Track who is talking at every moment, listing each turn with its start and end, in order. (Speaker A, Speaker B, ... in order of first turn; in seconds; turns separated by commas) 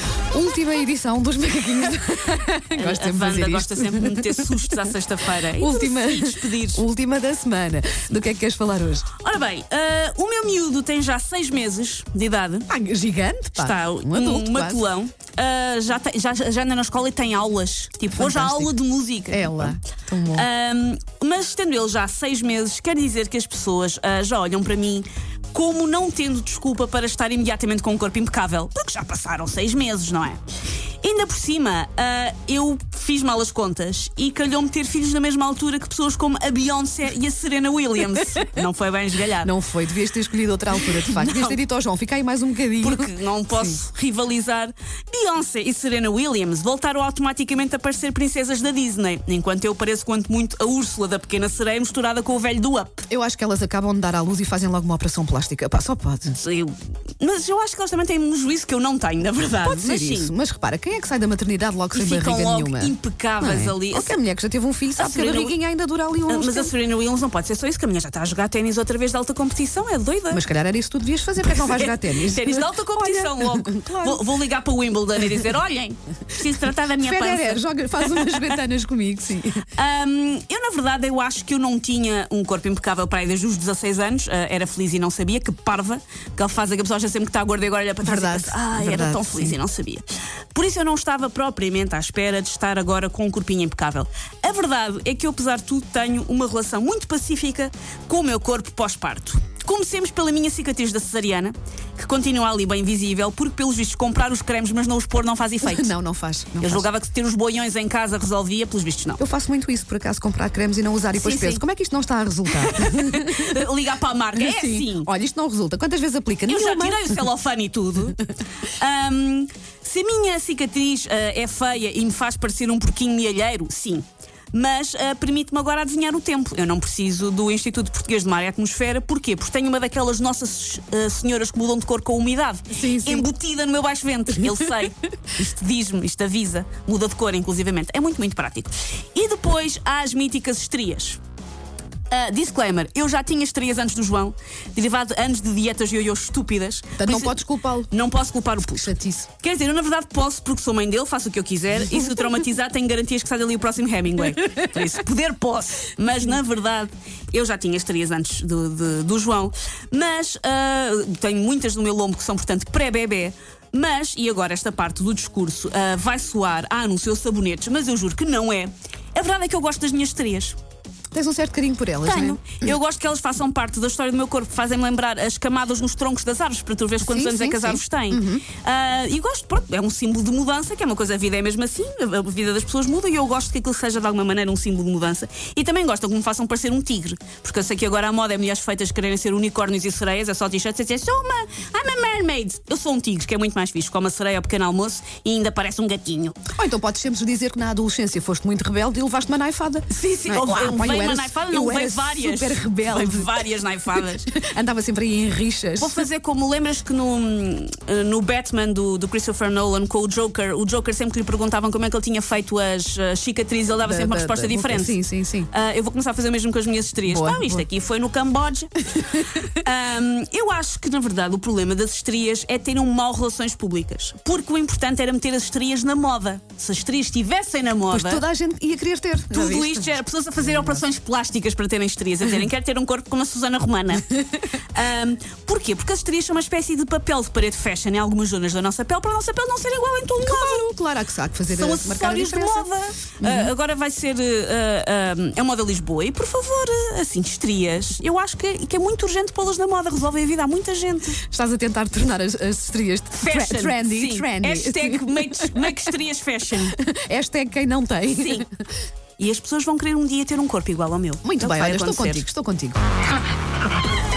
Speaker A: 0.3-9.1, Speaker B: 2.8-6.8, Speaker B: 9.2-12.7, Speaker A: 12.7-14.9, Speaker B: 13.6-19.7, Speaker A: 18.2-18.8, Speaker A: 19.3-20.5, Speaker B: 20.3-30.4, Speaker B: 31.0-39.5, Speaker A: 39.4-43.8, Speaker B: 40.9-41.6, Speaker B: 42.8-53.0, Speaker A: 53.1-56.4, Speaker B: 56.3-60.3, Speaker A: 59.6-66.7, Speaker B: 61.9-64.2, Speaker B: 65.0-65.6, Speaker B: 66.3-70.4, Speaker A: 70.3-74.3, Speaker B: 71.5-78.5, Speaker A: 77.0-79.7, Speaker B: 79.8-105.9, Speaker A: 88.0-89.6, Speaker A: 105.6-106.9, Speaker B: 106.6-109.2, Speaker A: 109.2-113.6, Speaker B: 111.2-111.6, Speaker B: 112.5-115.1, Speaker A: 114.3-117.2, Speaker B: 116.5-141.2, Speaker A: 132.7-133.3, Speaker B: 142.1-170.6, Speaker A: 147.0-147.9, Speaker A: 148.7-149.3, Speaker A: 151.8-152.2, Speaker A: 171.1-172.4, Speaker B: 172.0-196.4, Speaker A: 177.0-178.5, Speaker A: 196.6-203.4, Speaker B: 199.9-204.3, Speaker A: 204.1-206.1, Speaker B: 205.8-215.0, Speaker A: 213.8-215.5, Speaker B: 215.5-228.2, Speaker A: 217.1-217.7, Speaker A: 227.9-230.8, Speaker B: 229.3-240.7, Speaker A: 240.2-242.7, Speaker B: 241.5-251.2, Speaker A: 243.2-243.5, Speaker A: 251.2-255.9, Speaker B: 253.2-256.8, Speaker A: 256.6-258.5, Speaker B: 258.1-258.5, Speaker B: 259.2-262.2, Speaker A: 261.2-262.8